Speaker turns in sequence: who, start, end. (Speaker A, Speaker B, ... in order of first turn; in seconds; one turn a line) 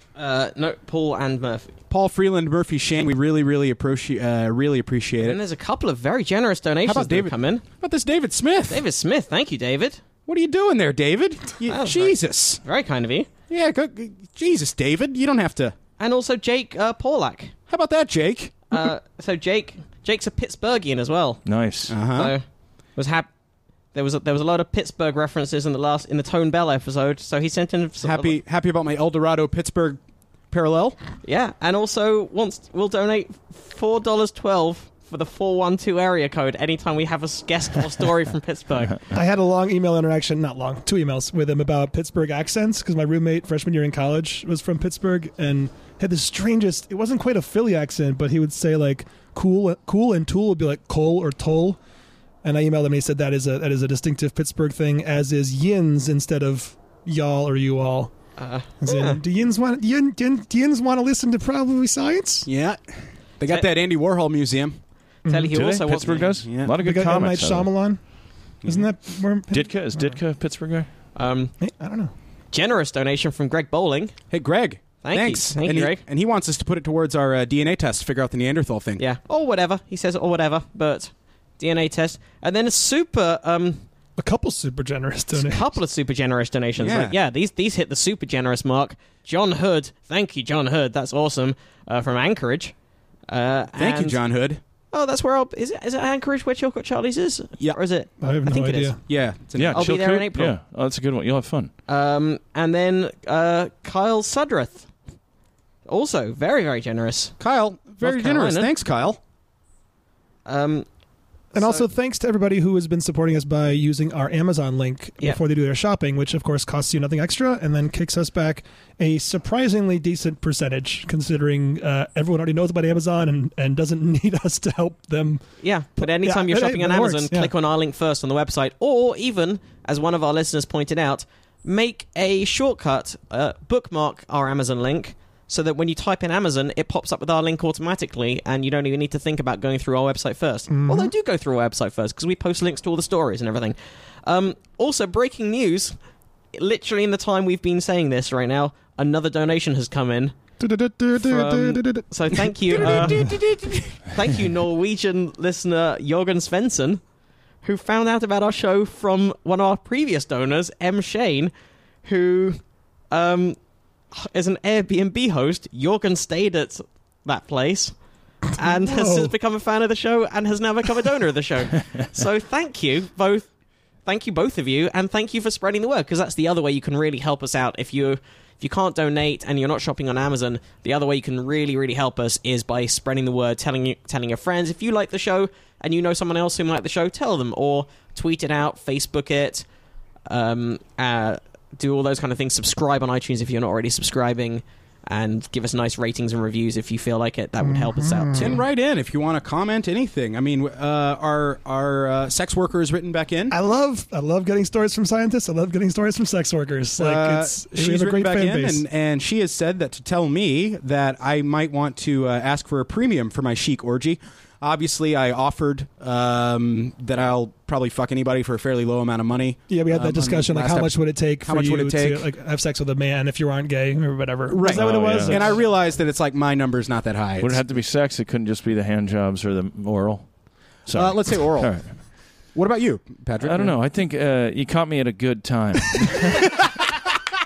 Speaker A: 0.2-1.7
Speaker B: 1.9-5.4
Speaker A: 5.2-7.6
Speaker B: 6.8-8.8
Speaker A: 8.7-10.0
Speaker B: 10.3-12.6
Speaker A: 11.7-13.3
Speaker B: 13.5-15.8
Speaker A: 16.0-17.5
Speaker B: 17.7-18.8
Speaker A: 18.7-21.4
Speaker C: 21.5-21.9
Speaker B: 21.9-22.3
Speaker A: 22.1-22.4
Speaker A: 23.0-23.3
Speaker A: 23.9-28.4
Speaker B: 28.0-31.0
Speaker A: 31.2-39.0
Speaker D: 39.1-51.8
Speaker D: 52.4-58.1
Speaker A: 58.4-59.2
Speaker D: 58.8-62.5
Speaker B: 62.5-62.8
Speaker B: 63.4-64.8
Speaker D: 65.3-65.5
Speaker A: 65.3-66.4
Speaker C: 65.5-67.7
Speaker B: 66.5-66.7
Speaker D: 66.8-68.0
Speaker B: 68.6-68.9
Speaker D: 68.6-70.2
Speaker C: 69.5-70.9
Speaker A: 71.2-71.5
Speaker D: 71.6-72.1
Speaker A: 72.5-74.2
Speaker B: 74.3-79.0
Speaker A: 75.0-76.0
Speaker A: 79.0-83.8
Speaker D: 84.2-85.8
Speaker A: 85.3-92.7
Speaker B: 86.8-87.2
Speaker A: 93.3-94.2
Speaker B: 93.8-94.6
Speaker A: 94.9-99.0
Speaker D: 98.2-99.0
Speaker B: 99.1-99.9
Speaker C: 99.6-101.7
Speaker A: 99.7-100.5
Speaker A: 101.9-104.9
Speaker A: 105.9-107.4
Speaker B: 107.4-109.2
Speaker A: 108.0-108.7
Speaker A: 110.5-110.9
Speaker A: 111.5-111.9
Speaker D: 111.5-125.5
Speaker A: 125.6-145.9
Speaker D: 126.0-127.5
Speaker D: 140.7-141.1
Speaker A: 146.5-150.4
Speaker D: 150.6-152.0
Speaker A: 151.1-157.0
Speaker D: 152.7-153.3
Speaker B: 152.7-153.8
Speaker A: 157.6-161.5
Speaker A: 162.0-163.6
Speaker A: 164.1-167.9
Speaker A: 168.5-173.5
Speaker D: 168.7-169.3
Speaker A: 174.1-189.7
Speaker A: 190.3-198.6
Speaker D: 197.6-198.6
Speaker B: 198.3-203.6
Speaker D: 203.5-208.8
Speaker B: 207.0-222.3
Speaker D: 219.7-225.6
Speaker B: 224.5-227.6
Speaker C: 224.6-225.5
Speaker C: 227.4-230.3
Speaker C: 230.8-231.9
Speaker B: 230.9-231.8
Speaker B: 232.5-233.8
Speaker C: 233.4-236.7